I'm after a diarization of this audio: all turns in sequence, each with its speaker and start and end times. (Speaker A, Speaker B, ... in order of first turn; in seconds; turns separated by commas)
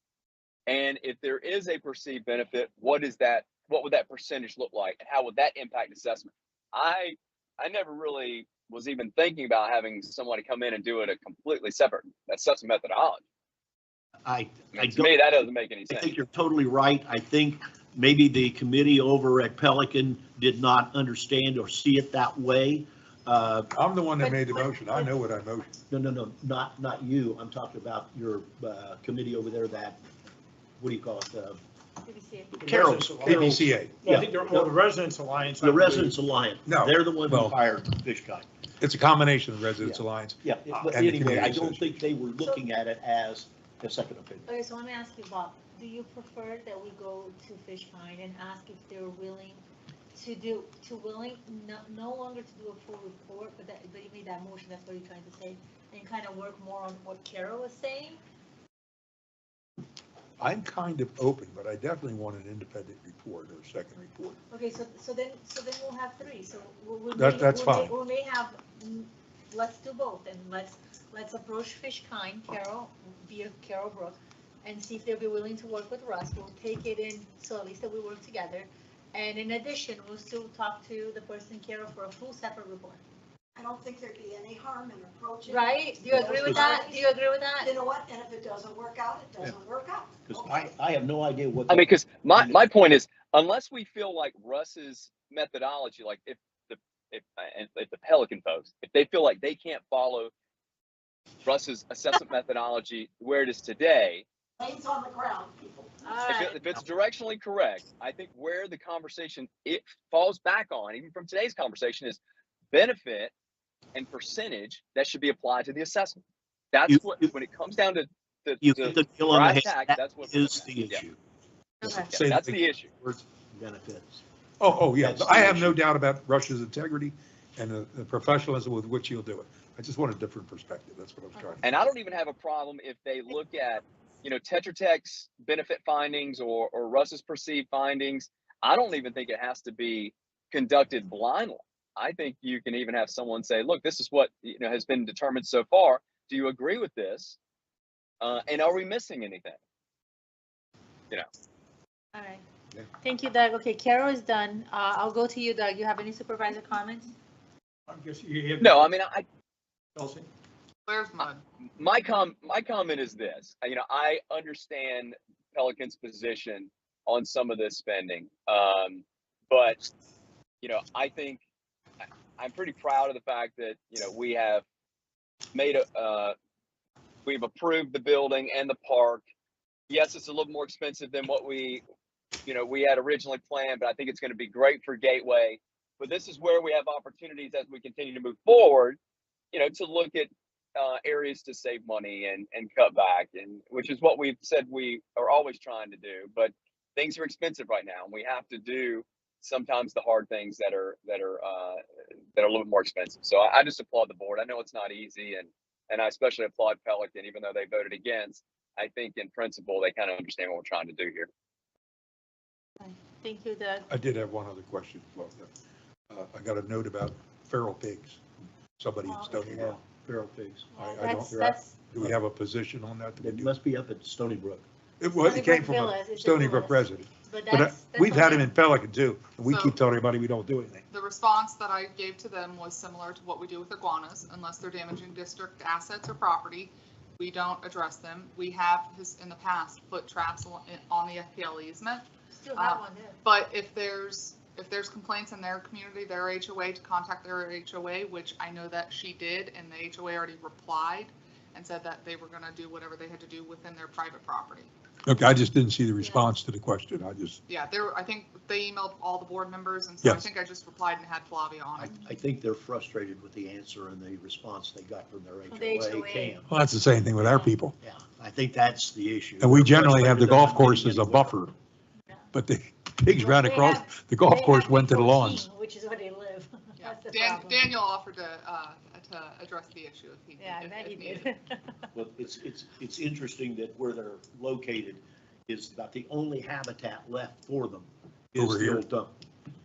Speaker A: 0.7-13.2, Speaker B: 14.2-15.3, Speaker A: 14.7-16.1, Speaker B: 15.9-23.7, Speaker C: 23.7-25.7, Speaker B: 25.9-30.0, Speaker B: 30.8-31.6, Speaker D: 32.0-32.6, Speaker E: 32.6-36.2, Speaker B: 32.6-34.8, Speaker C: 33.2-34.0, Speaker B: 35.6-38.5, Speaker C: 36.7-37.6, Speaker C: 38.8-41.9, Speaker B: 39.8-44.5, Speaker D: 44.5-49.6, Speaker D: 50.1-58.2, Speaker C: 60.4-64.4, Speaker D: 64.5-83.0, Speaker C: 67.2-67.9, Speaker F: 83.5-90.6, Speaker D: 85.5-87.8, Speaker B: 86.1-86.8, Speaker B: 90.3-92.6, Speaker A: 91.7-100.3, Speaker A: 101.5-104.3, Speaker F: 104.6-106.0, Speaker D: 106.0-106.6, Speaker A: 106.3-112.2, Speaker A: 112.7-113.3, Speaker A: 113.9-121.0, Speaker B: 116.9-117.3, Speaker B: 118.6-121.2, Speaker C: 121.9-122.6, Speaker A: 122.0-122.9, Speaker B: 123.0-124.2, Speaker C: 124.6-131.7, Speaker B: 124.9-125.8, Speaker A: 131.6-147.4, Speaker A: 148.2-149.6, Speaker D: 152.1-152.4, Speaker D: 153.0-157.1, Speaker E: 157.9-158.9, Speaker A: 158.6-159.2, Speaker E: 160.0-160.3, Speaker G: 160.9-161.4, Speaker A: 161.8-169.8, Speaker A: 170.6-171.4, Speaker A: 172.4-174.6, Speaker A: 175.5-176.3, Speaker A: 177.2-179.2, Speaker A: 179.9-181.8, Speaker A: 182.5-189.0, Speaker A: 189.5-201.8, Speaker A: 202.3-211.3, Speaker D: 212.8-213.9, Speaker C: 213.9-215.5, Speaker C: 216.1-218.2, Speaker C: 218.8-219.8, Speaker D: 219.1-219.4, Speaker B: 219.4-222.2, Speaker C: 220.8-223.5, Speaker D: 220.8-221.8, Speaker B: 223.2-224.7, Speaker C: 225.0-230.8, Speaker D: 225.2-228.6, Speaker G: 229.5-229.8, Speaker G: 230.9-254.7, Speaker D: 242.3-243.2, Speaker C: 255.1-257.4, Speaker D: 256.0-256.3, Speaker G: 257.5-262.0, Speaker C: 260.0-260.3, Speaker B: 261.8-266.5, Speaker D: 265.5-266.4, Speaker C: 266.5-267.7, Speaker D: 267.2-267.5, Speaker B: 267.8-271.4, Speaker C: 269.4-271.5, Speaker C: 272.3-275.5, Speaker D: 273.1-277.8, Speaker G: 276.8-281.3, Speaker D: 280.4-281.9, Speaker B: 281.9-289.1, Speaker C: 288.4-288.8